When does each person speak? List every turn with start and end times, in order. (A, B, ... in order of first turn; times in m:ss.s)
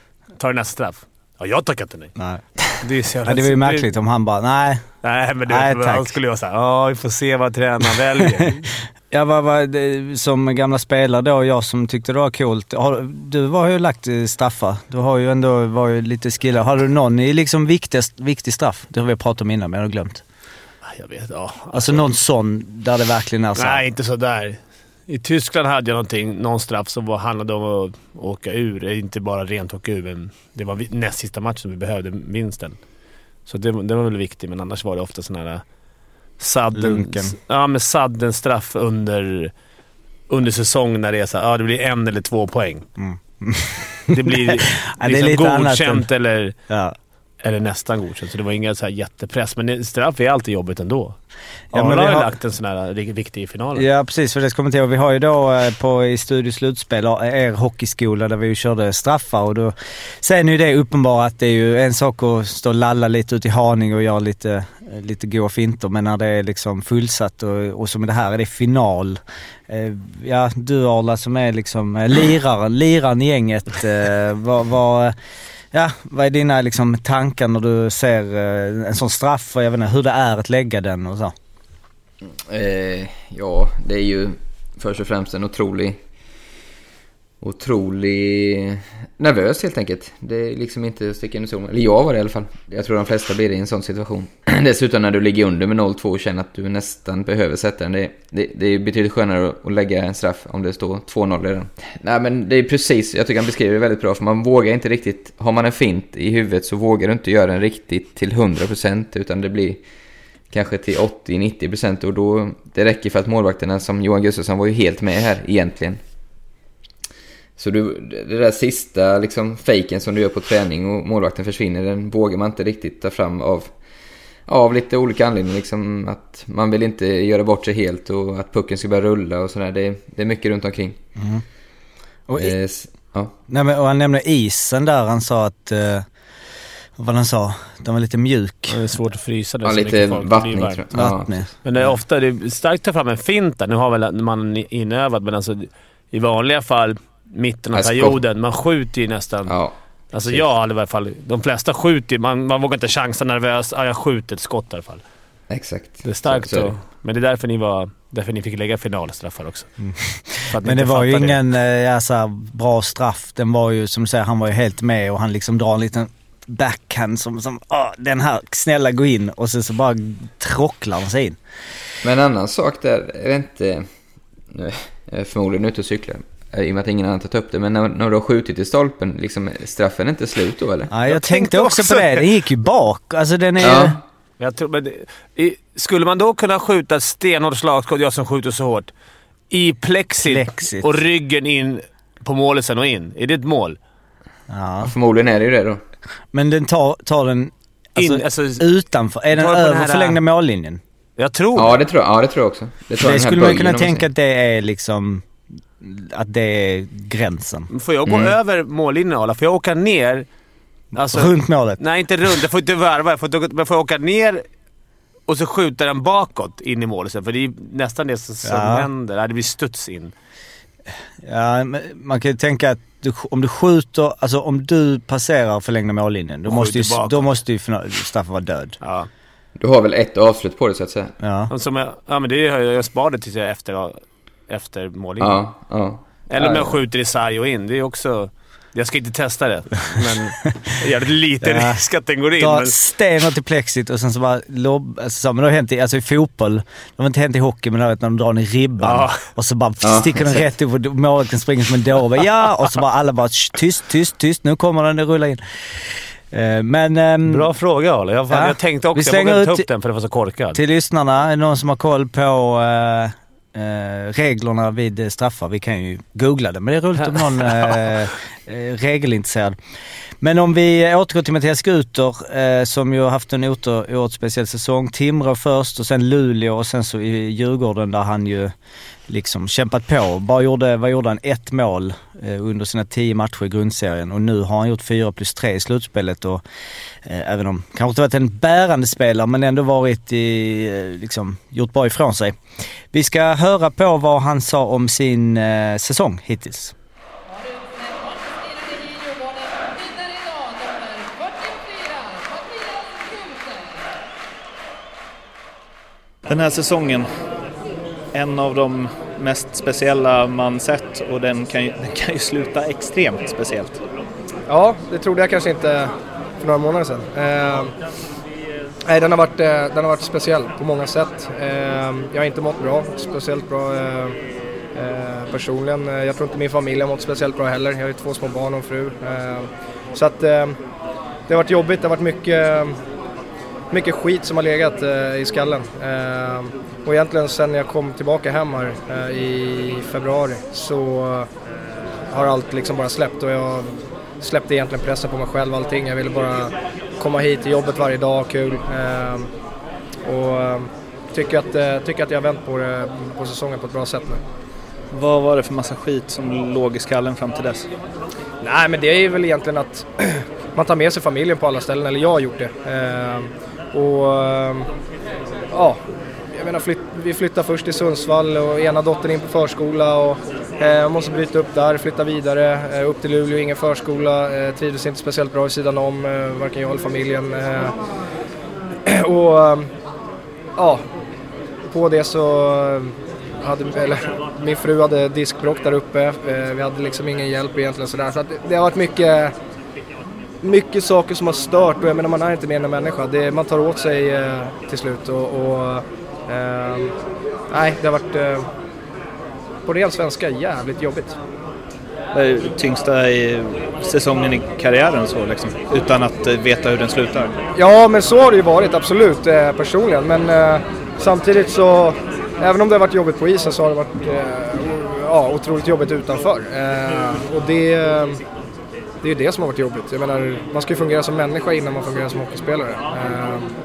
0:00.4-0:02.1 A
0:02.2-0:02.4 B
0:02.8-0:03.9 A
0:03.2-0:04.9 B
0:05.0-0:08.7 A
0:05.4-0:06.1 B
0:09.1-0:20.2 B
0:20.8-0:22.0 A
0:21.7-0:23.8 B
0:23.6-0:32.8 A
0:33.4-0:35.6 A
0:36.4-0:39.5 A
0:36.7-0:37.3 B
0:40.3-0:42.8 A
0:43.0-0:46.1 B
0:44.1-0:46.6 A
0:46.6-0:46.9 B
0:47.4-0:51.2 A
0:51.7-0:52.3 B
0:51.7-0:53.8 A
0:53.8-1:15.1 B
1:15.7-1:21.3 B
1:22.3-1:26.0 C
1:27.4-1:49.8 C
1:50.5-1:56.0 C
1:57.6-2:03.7 C
2:04.5-2:11.0 C
2:11.2-2:11.4 B
2:12.3-2:12.5 B
2:12.4-2:13.3 C
2:13.5-2:16.0 B
2:17.0-2:18.8 B
2:18.7-2:20.8 A
2:19.6-2:21.4 C
2:20.9-2:21.5 B
2:21.6-2:29.6 A
2:27.7-2:28.2 C
2:29.5-2:30.4 C
2:30.1-2:35.0 A
2:35.5-2:36.7 C
2:36.0-2:39.7 A
2:39.8-2:51.4 B
2:40.5-2:41.4 A
2:52.0-2:53.9 C
2:54.5-3:00.9 C
3:00.9-3:04.0 B
3:01.1-3:02.2 A
3:03.6-3:04.0 C
3:04.4-3:08.9 A
3:09.5-3:13.8 A
3:10.2-3:11.0 B
3:14.5-3:14.9 B
3:14.8-3:15.8 C
3:16.3-3:20.8 B
3:18.0-3:18.6 A
3:19.3-3:20.2 A
3:21.2-3:21.7 A
3:21.5-3:24.0 C
3:23.0-3:25.3 B
3:25.8-3:27.7 B
3:27.7-3:30.2 A
3:28.1-3:28.3 C
3:30.9-3:34.4 A
3:31.0-3:31.8 B
3:35.3-3:40.1 A
3:38.4-3:38.9 B
3:41.2-3:48.8 B
3:46.5-3:47.3 A
3:48.8-3:49.1 A
3:49.6-3:51.1 C
3:51.2-3:51.5 B
3:51.5-3:55.4 A
3:55.2-3:56.0 C
3:56.3-4:02.7 A
3:56.4-3:56.7 B
4:01.4-4:01.8 B
4:02.4-4:15.4 B
4:08.8-4:09.2 A
4:09.8-4:10.1 C
4:16.3-4:17.5 B
4:17.3-4:20.6 A
4:18.3-4:19.6 B
4:20.5-4:29.6 B
4:30.2-4:38.5 B
4:39.1-4:46.4 B
4:47.0-4:52.4 B
4:52.9-4:56.7 B
5:06.2-5:07.1 D
5:08.1-5:13.8 D
5:14.5-5:17.7 E
5:18.9-5:24.2 E
5:24.7-5:30.6 E
5:31.3-5:32.8 E
5:33.7-5:41.3 E
5:42.1-5:49.3 E
5:50.0-5:54.2 E
5:54.9-5:57.7 D
5:58.4-6:04.7 E
6:05.5-6:05.8 E
6:06.3-6:17.8 E
6:18.9-6:19.7 E
6:20.6-6:20.8 E
6:21.7-6:29.3 E
6:30.4-6:36.9 E
6:37.5-6:38.5 E
6:39.6-6:41.2 E
6:42.1-6:47.3 D
6:47.5-6:58.2 E
6:59.0-7:03.5 E